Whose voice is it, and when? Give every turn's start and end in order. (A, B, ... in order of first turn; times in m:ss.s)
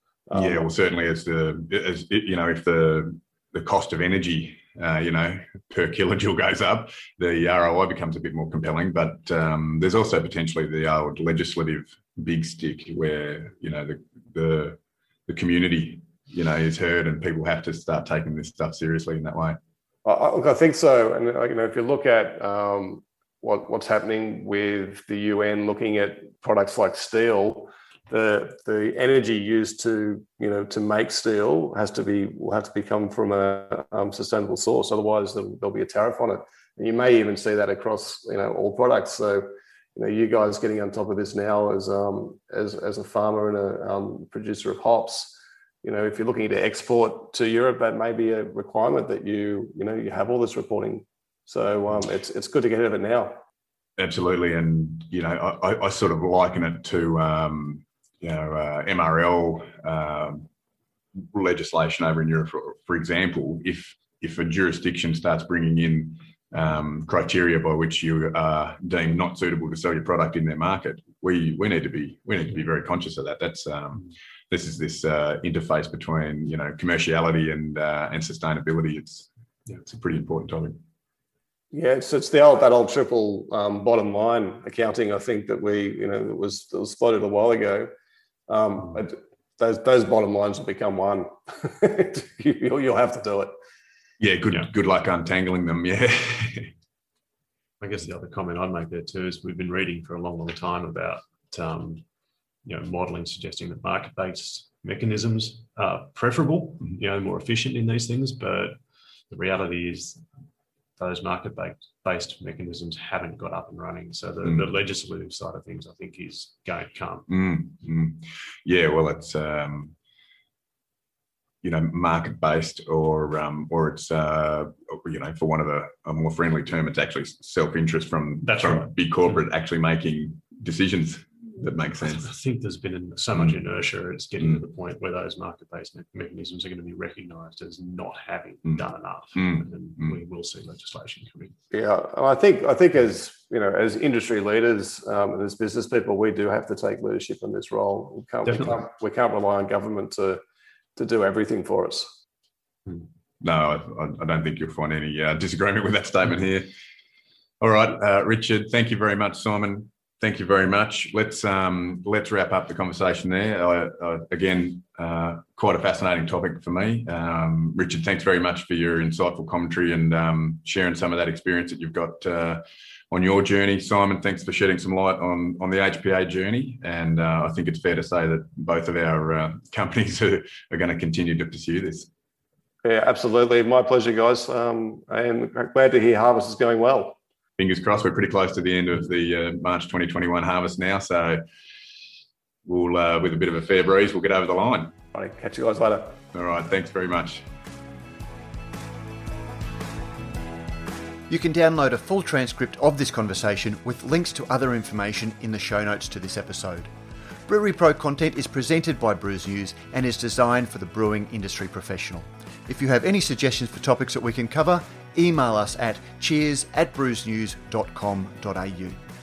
0:00.3-0:00.6 A
0:00.3-0:19.6 B
0:20.0-0:53.4 A
0:54.0-1:00.5 B
1:01.3-1:20.8 B
1:21.7-1:27.9 A
1:28.5-1:33.5 A
1:34.2-1:36.7 B
1:37.8-1:42.0 C
1:42.6-1:48.8 C
1:49.3-1:50.2 C
1:51.0-1:57.3 C
1:54.4-1:54.7 B
1:57.3-1:59.9 B
2:01.6-2:12.3 B
2:08.4-2:08.9 C
2:12.0-2:21.6 C
2:18.7-2:20.2 B
2:21.7-2:30.4 A
2:28.5-2:28.8 C
2:31.0-2:32.2 A
2:33.4-2:36.7 B
2:37.6-3:02.1 B
3:02.8-3:07.2 A
3:07.6-3:11.4 B
3:12.6-3:14.9 B
3:15.1-3:16.2 A
3:16.3-3:17.4 B
3:21.3-3:26.9 D
3:27.5-3:39.0 D